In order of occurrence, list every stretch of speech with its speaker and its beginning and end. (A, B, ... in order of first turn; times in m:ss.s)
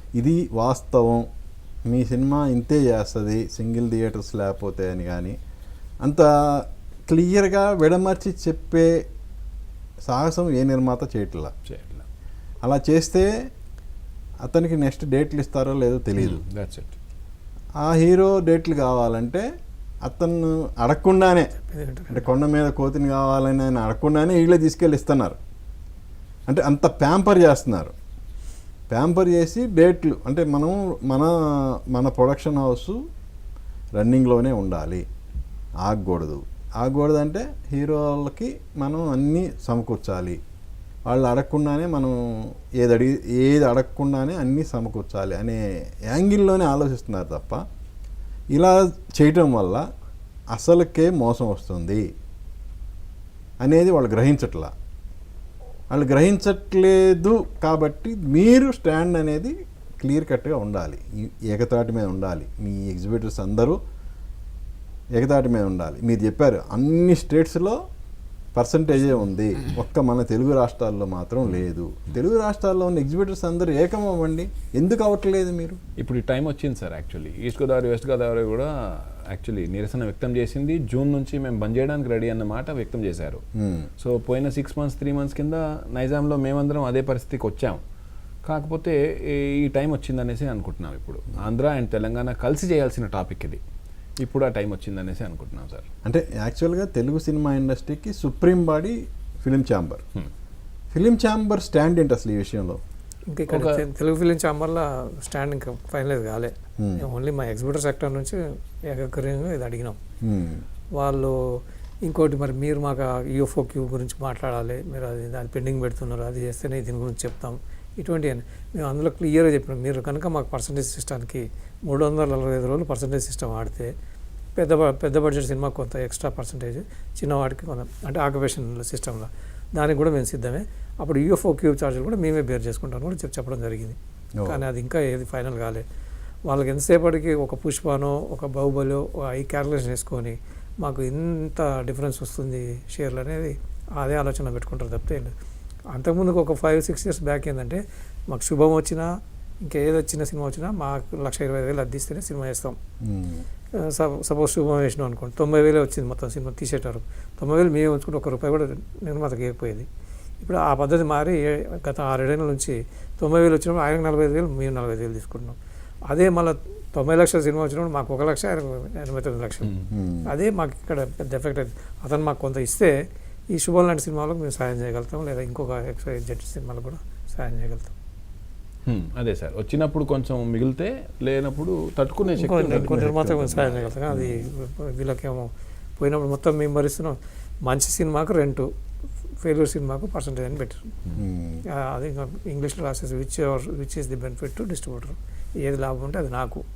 0:00.2-0:01.3 A
0:01.9-0:05.4 A
0:06.0-0:09.0 A
0:10.1-0:11.5 A
0:11.6-0:12.1 B
0:12.6-0:13.3 A
0:14.4-0:16.4 A
0:16.2-0:17.0 B
0:17.8-0:19.4 A
0:20.0-0:21.6 A
0:21.6-0:22.3 C
0:22.1-0:25.4 A
0:26.5-0:27.9 A
0:28.9-0:33.0 A
0:34.0-0:35.0 A
0:35.8-0:40.4 A
0:41.1-0:47.6 A
0:48.5-0:49.8 A
0:50.5-0:52.0 A
0:53.6-0:54.7 A
0:55.9-1:03.8 A
1:05.2-1:07.8 A
1:08.6-1:15.8 A
1:16.0-1:23.4 B
1:23.6-1:23.9 A
1:24.0-1:27.8 B
1:28.4-1:33.6 B
1:34.2-1:35.9 B
1:36.0-1:40.0 A
1:40.9-1:42.8 A
1:43.3-1:50.0 C
1:43.5-1:43.8 B
1:46.8-1:47.1 A
1:50.2-1:50.6 A
1:51.0-2:03.9 C
2:04.6-2:15.8 C
2:16.5-2:25.3 C
2:25.9-2:29.1 C
2:29.6-2:32.8 C
2:33.0-2:33.4 A
2:33.8-2:39.9 C
2:40.4-2:45.6 C
2:46.1-2:52.9 C
2:49.9-2:50.3 A
2:53.5-2:57.9 C
2:58.9-3:03.1 B
3:02.3-3:08.7 C
3:02.7-3:04.5 A
3:09.4-3:10.9 C
3:11.2-3:11.6 A
3:11.7-3:16.6 C